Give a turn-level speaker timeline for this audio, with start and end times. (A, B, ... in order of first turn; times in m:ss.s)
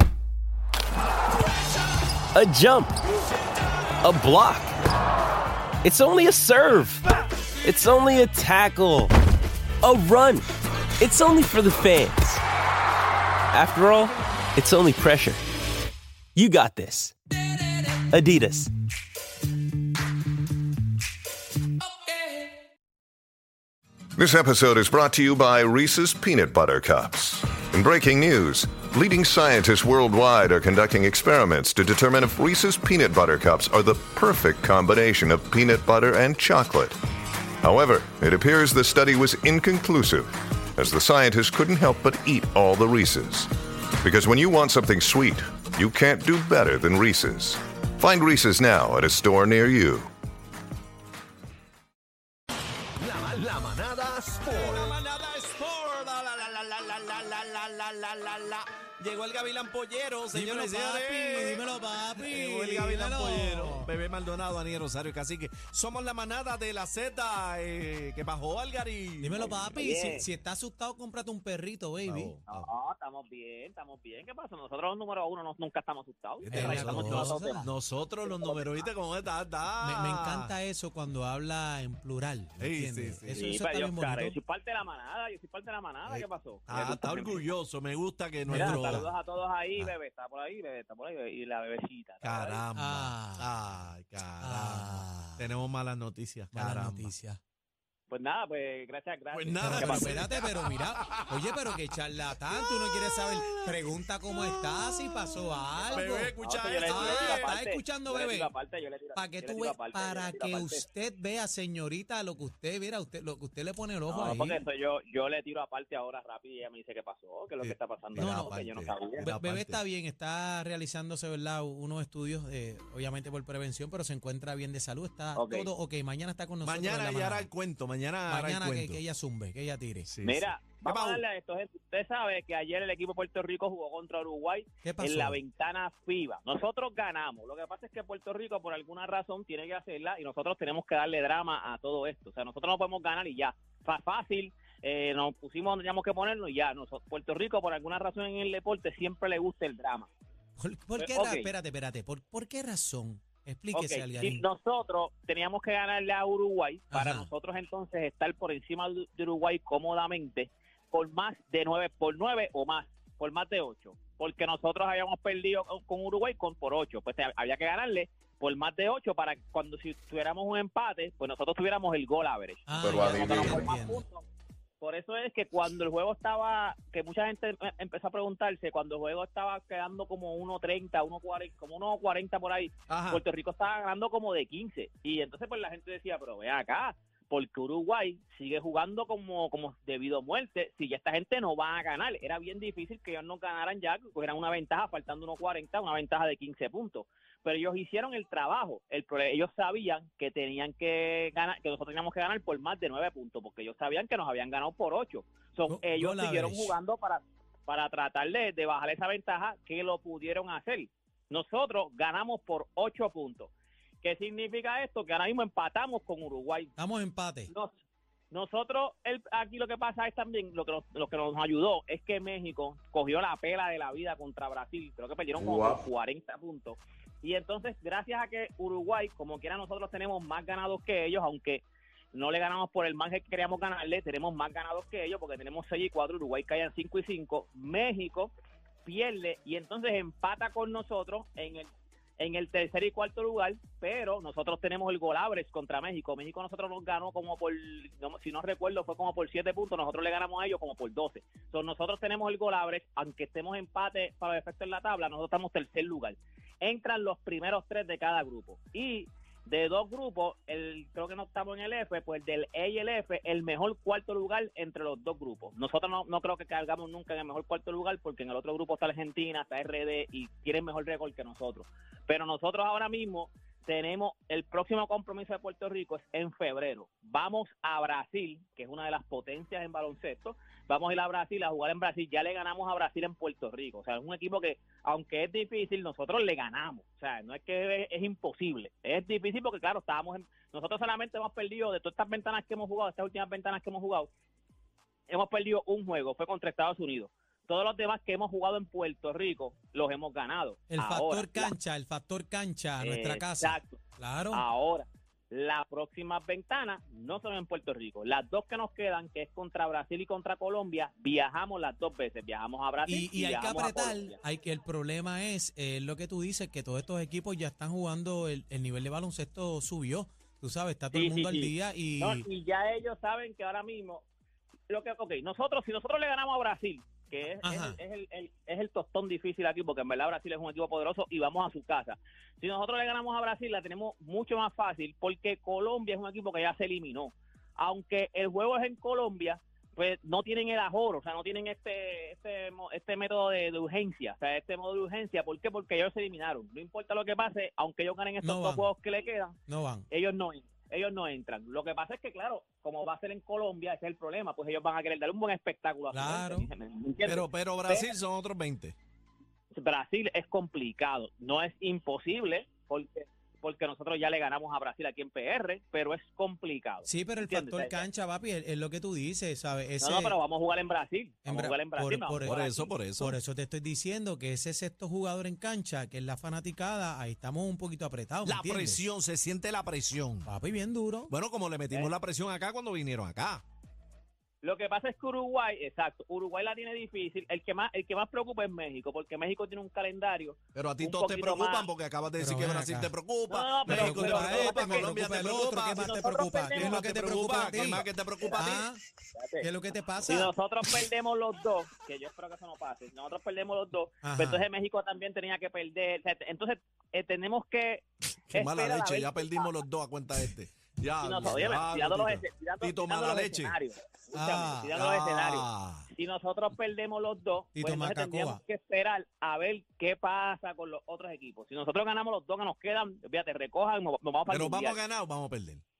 0:02.3-0:02.9 A
0:04.0-0:04.7 A
0:05.8-0:07.0 A
0:07.6-0:09.1 A
0:09.8-0:10.4 A
0:10.0-0:10.4 B
0:11.0-0:12.4 A
0:11.2-0:11.5 B
0:13.5-0:15.4 A
0:13.7-0:14.1 B
0:16.4-0:17.1 A
0:18.1-0:18.6 A
0:24.1-0:37.0 B
0:37.6-0:50.1 B
0:53.0-1:09.8 C
1:00.3-1:03.9 D
1:09.2-1:12.3 D
1:09.7-1:10.2 E
1:12.0-1:12.7 C
1:12.5-1:17.6 E
1:16.4-1:20.5 C
1:16.5-1:17.7 D
1:18.2-1:18.9 E
1:19.8-1:24.4 D
1:22.6-1:23.4 C
1:23.3-1:27.4 E
1:26.1-1:29.1 C
1:28.5-1:29.1 D
1:28.5-1:32.6 E
1:32.2-1:37.1 C
1:32.8-1:33.5 D
1:34.4-1:35.5 D
1:36.5-1:37.4 D
1:38.1-1:40.3 E
1:39.3-1:41.8 C
1:39.6-1:46.3 D
1:42.5-1:47.5 C
1:45.9-1:50.8 E
1:46.8-1:48.5 D
1:49.2-1:54.6 D
1:54.1-1:59.3 E
1:57.6-1:59.8 C
1:58.2-1:58.5 D
1:59.2-2:07.5 D
2:05.3-2:05.7 E
2:06.6-2:09.0 C
2:08.3-2:10.1 D
2:10.0-2:11.2 C
2:10.2-2:30.1 E
2:14.8-2:15.4 D
2:30.6-2:34.4 D
2:31.0-2:31.5 E
2:33.7-2:54.2 E
2:36.9-2:37.3 D
2:52.7-2:54.0 D
2:52.8-2:53.6 B
2:54.8-3:33.5 E
3:02.9-3:03.2 C
3:25.7-3:26.7 D
3:34.0-3:36.7 E
3:36.8-3:37.5 D
3:37.5-3:37.7 E
3:38.3-3:58.3 E
3:58.8-4:54.1 E
4:55.1-5:01.5 E
5:00.7-5:04.4 D
5:02.8-5:03.8 E
5:04.3-5:14.2 E
5:12.8-5:22.2 D
5:20.9-5:24.0 E
5:24.7-5:49.4 E
5:27.4-5:27.8 D
5:48.2-5:48.7 D
5:49.5-5:49.8 D
5:49.9-5:57.9 E
5:55.9-5:56.5 D
5:57.0-5:58.7 C
5:59.5-6:07.8 E
6:06.8-6:10.2 D
6:09.8-6:12.7 E
6:11.2-6:12.4 D
6:12.2-6:13.2 C
6:13.0-6:18.8 D
6:18.2-6:20.3 C
6:20.3-6:21.1 D
6:21.1-6:23.4 C
6:24.4-6:31.7 E
6:30.5-6:35.9 C
6:32.2-6:32.9 D
6:33.3-6:35.0 E
6:33.7-6:37.8 D
6:35.7-6:36.8 E
6:36.5-6:38.6 C
6:37.6-6:38.5 E
6:38.4-6:38.8 D
6:39.1-6:39.5 E
6:39.4-6:40.3 D
6:40.0-6:49.6 E
6:44.0-6:44.4 D
6:48.3-6:53.6 C
6:51.0-7:04.8 E
6:54.1-6:54.7 D
6:54.7-6:55.9 C
6:57.5-6:58.4 D
7:04.3-7:05.6 C